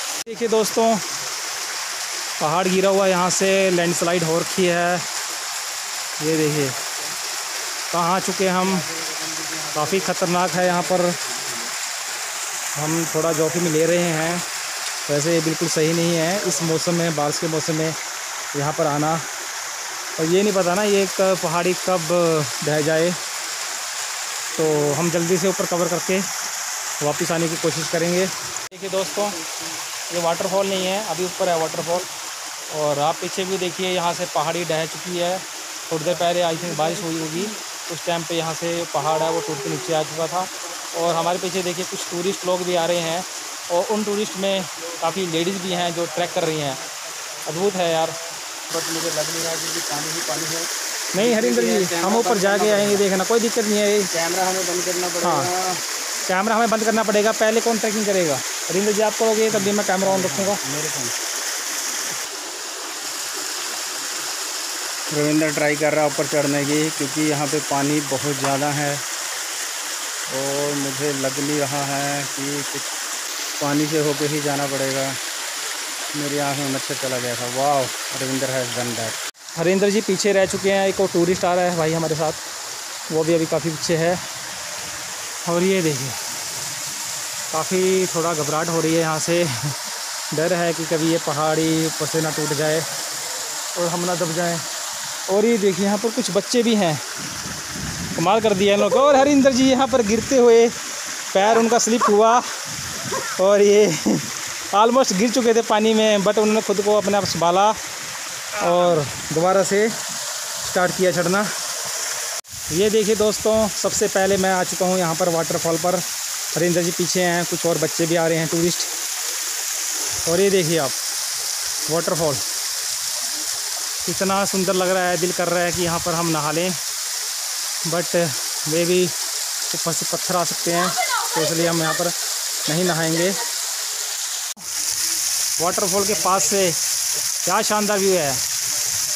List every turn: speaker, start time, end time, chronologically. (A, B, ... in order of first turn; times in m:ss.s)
0:00.2-0:01.0 A
0:02.4-0:05.0 A
0:06.2-0:06.8 A
0:06.3-0:07.1 B
0:07.9-0:08.8 A
0:08.6-0:11.7 B
0:09.7-0:11.2 A
0:12.8-0:14.4 A
0:15.1-0:17.9 A
0:16.4-0:16.8 B
0:18.5-0:19.2 A
0:20.2-0:23.2 A
0:24.5-0:26.2 A
0:27.0-0:29.4 A
0:29.4-0:29.7 B
0:30.1-0:32.1 A
0:32.7-0:46.8 A
0:36.8-0:37.2 B
0:45.0-0:48.0 B
0:47.4-0:48.1 A
0:48.7-0:53.0 B
0:51.1-0:54.1 A
0:54.1-0:55.8 B
0:55.2-0:55.5 A
0:56.3-1:00.6 A
0:59.5-1:01.1 B
1:05.1-1:09.0 B
1:10.3-1:12.9 B
1:13.6-1:15.2 B
1:16.1-1:19.2 B
1:19.5-1:22.4 A
1:23.1-1:24.2 A
1:25.4-1:26.2 A
1:27.5-1:29.5 A
1:30.3-1:32.8 A
1:33.8-1:34.6 A
1:35.3-1:37.0 A
1:38.1-1:40.7 A
1:41.3-1:42.4 A
1:43.2-1:47.8 A
1:48.6-1:49.9 A
1:50.6-1:51.5 A
1:52.7-1:58.9 A
2:00.2-2:01.0 A
2:01.8-2:02.4 A
2:04.0-2:06.8 A
2:07.8-2:09.1 A
2:09.7-2:12.1 A
2:12.6-2:13.4 A
2:15.6-2:16.8 A
2:17.4-2:18.4 A